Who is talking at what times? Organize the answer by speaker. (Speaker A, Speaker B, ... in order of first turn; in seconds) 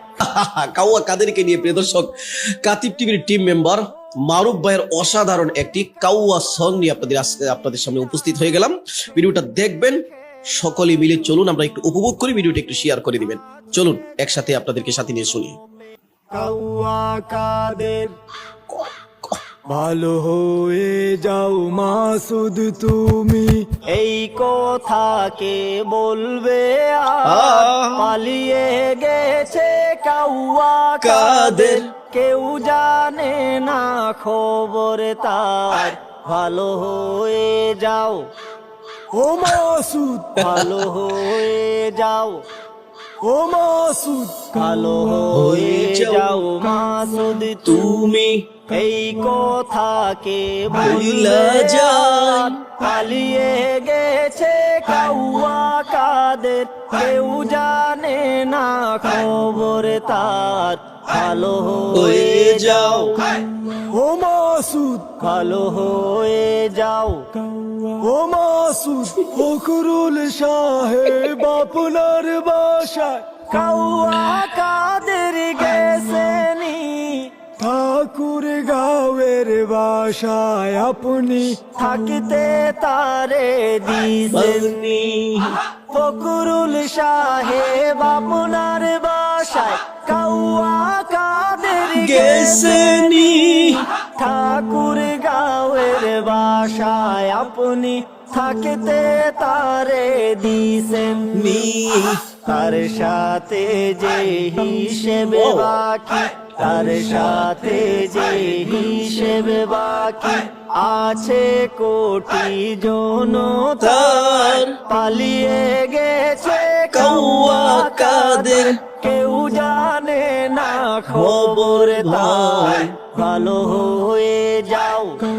Speaker A: 0.2-15.6, 18.7-19.4, 27.2-28.1, 31.0-31.9, 40.4-40.9, 45.3-46.3, 47.6-48.5, 50.8-52.6, 61.9-63.1, 84.3-85.6, 92.0-93.8, 101.3-102.2, 105.4-105.7, 113.8-114.8, 116.9-118.8, 121.1-122.9
Speaker B: 16.3-18.1, 23.9-38.3, 40.4-42.4, 44.5-48.0, 48.7-63.2, 65.2-67.3, 73.5-77.3, 81.7-84.8, 85.9-101.6, 102.4-125.2
Speaker C: 19.7-23.7, 39.1-40.5, 43.2-44.6, 63.8-65.2, 67.6-73.3, 77.6-81.6